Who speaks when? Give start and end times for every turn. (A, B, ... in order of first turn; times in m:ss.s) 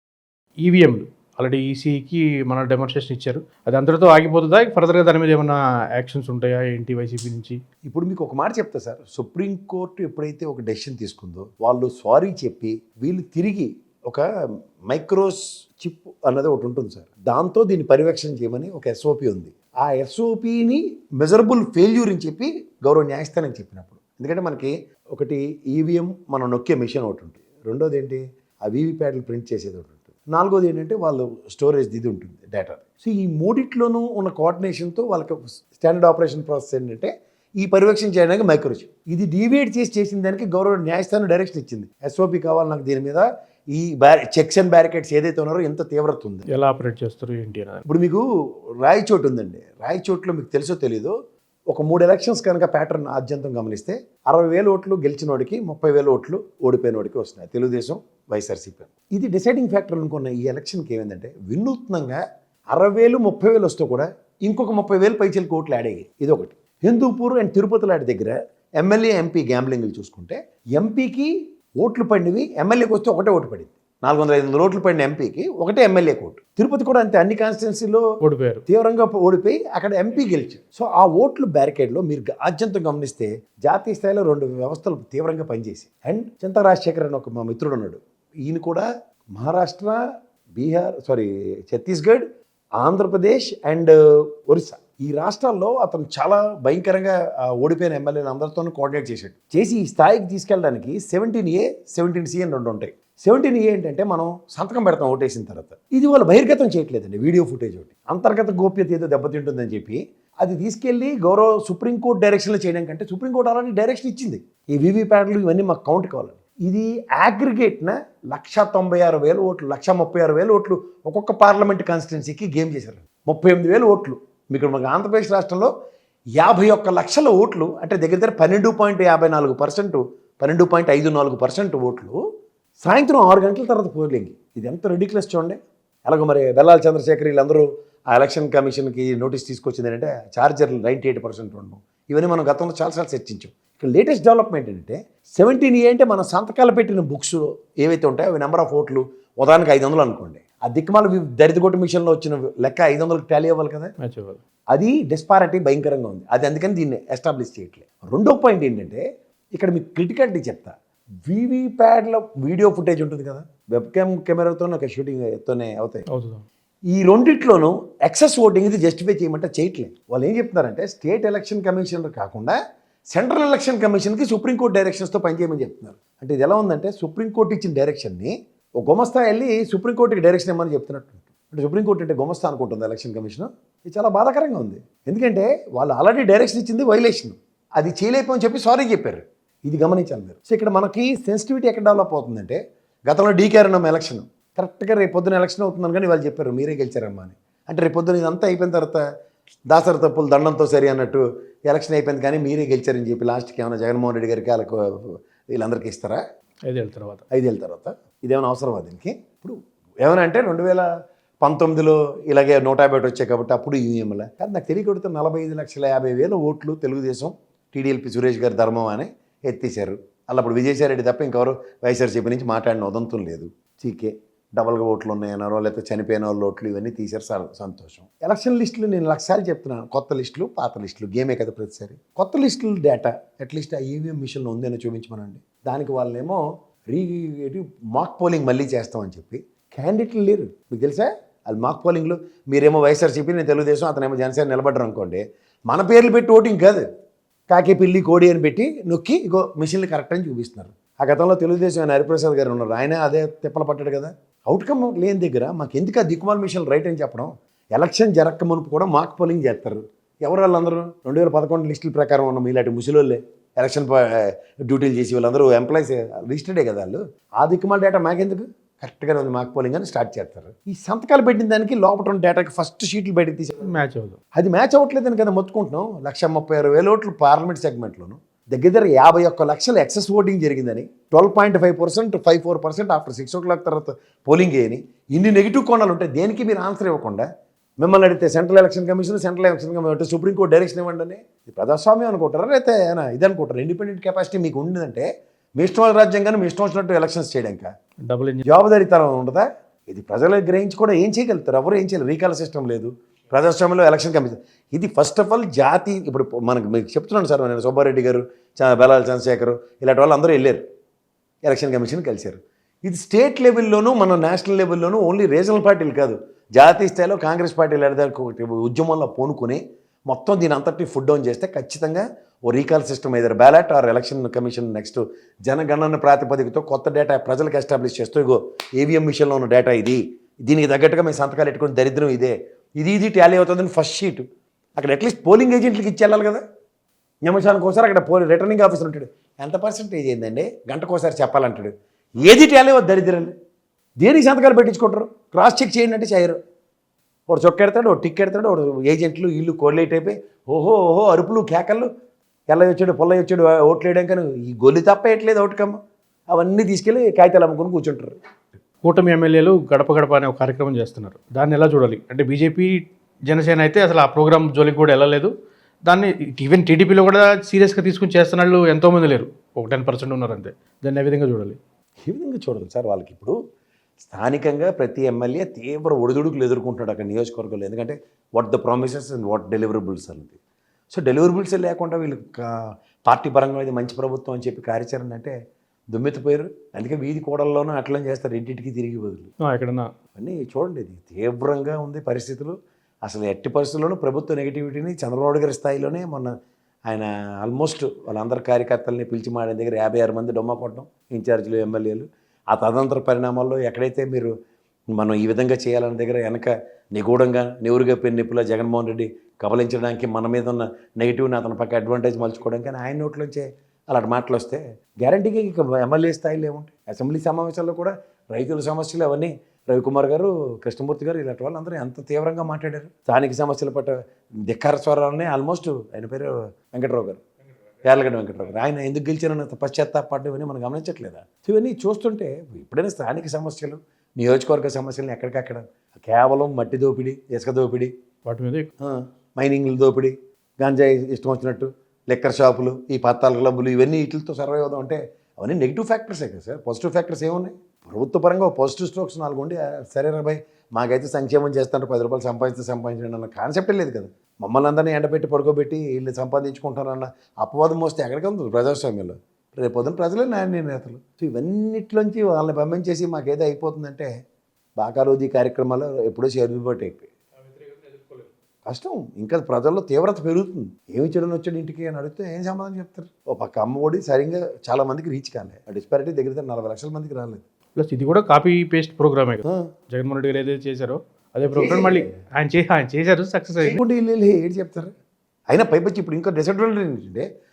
0:00.6-0:07.6 A
0:07.8-0:14.2 B
0:14.9-0:46.5 B
0:46.5-0:47.8 A
0:47.9-0:48.2 B
0:48.8-0:51.1 B
0:51.7-1:02.2 B
1:02.7-1:18.0 B
1:18.2-1:18.6 A
1:18.7-1:30.0 B
1:30.5-1:32.2 B
1:32.8-2:05.7 B
2:06.4-2:12.2 B
2:12.8-2:33.9 B
2:34.0-2:34.4 A
2:34.7-2:39.0 B
2:39.6-2:40.7 B
2:41.2-2:46.0 B
2:46.1-2:46.4 A
2:46.9-2:52.6 B
2:53.1-3:19.0 B
3:19.7-3:26.2 B
3:26.7-3:27.2 A
3:27.3-3:30.9 B
3:31.4-4:06.8 B
4:07.5-4:33.7 B
4:33.6-4:34.2 A
4:34.3-4:47.3 B
4:47.8-4:57.7 B
4:58.0-4:58.5 A
4:58.4-5:10.6 B
5:11.4-5:34.2 B
5:34.8-5:36.4 B
5:37.2-5:41.7 B
5:42.2-5:43.3 B
5:44.0-5:46.4 B
5:47.3-5:51.9 B
5:52.5-5:55.8 B
5:56.3-5:58.2 B
5:58.8-6:05.3 A
6:05.8-6:11.6 A
6:12.0-6:13.4 B
6:14.0-6:20.4 B
6:20.9-6:25.3 B
6:25.9-6:29.3 B
6:29.4-6:29.9 A
6:30.2-6:36.3 B
6:36.9-6:44.3 B
6:44.9-7:07.2 B
7:07.8-7:17.9 B
7:18.2-7:18.7 A
7:18.8-7:44.1 B
7:44.8-7:47.1 B
7:47.4-7:48.3 A
7:48.6-7:57.4 B
7:57.8-8:03.8 A
8:01.5-8:02.1 B
8:03.6-8:04.9 B
8:05.5-8:07.3 B